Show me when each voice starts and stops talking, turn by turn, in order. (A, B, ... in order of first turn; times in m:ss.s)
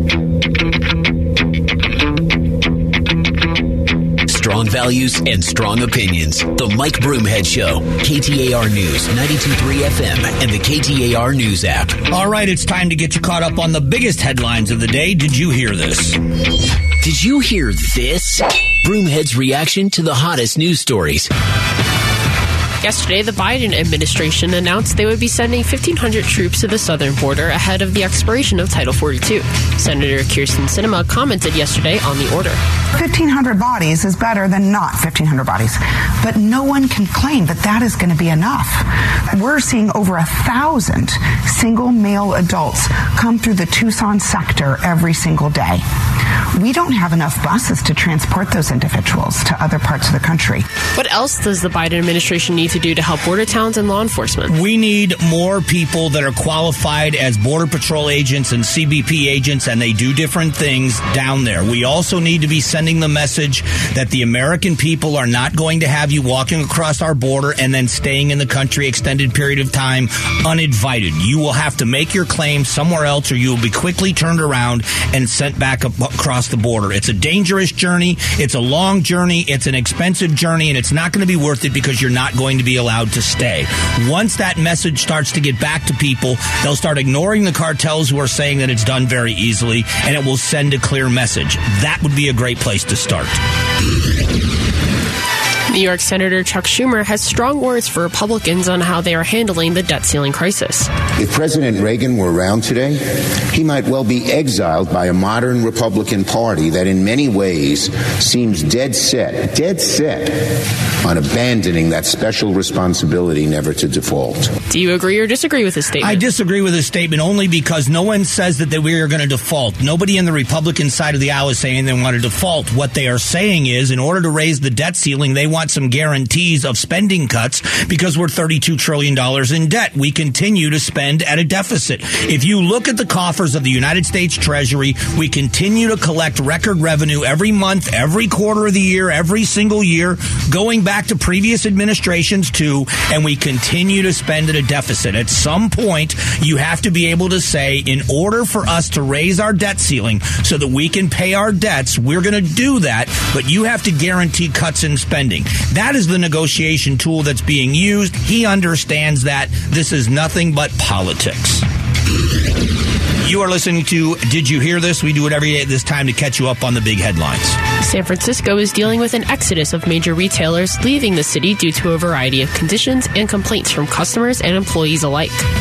0:04.2-0:12.0 A
0:12.1-0:16.2 B
0:17.0-0:21.3 A
0:22.8-0:32.6 C
0:32.9-0:45.8 D
0:46.5-0:50.7 D
0:50.9-0:54.5 C
0:54.5-1:33.4 B
1:35.7-1:40.9 C
1:41.2-1:54.5 E
1:54.7-1:56.2 C
1:56.0-2:41.6 B
2:43.2-2:47.6 B
2:47.8-2:55.5 C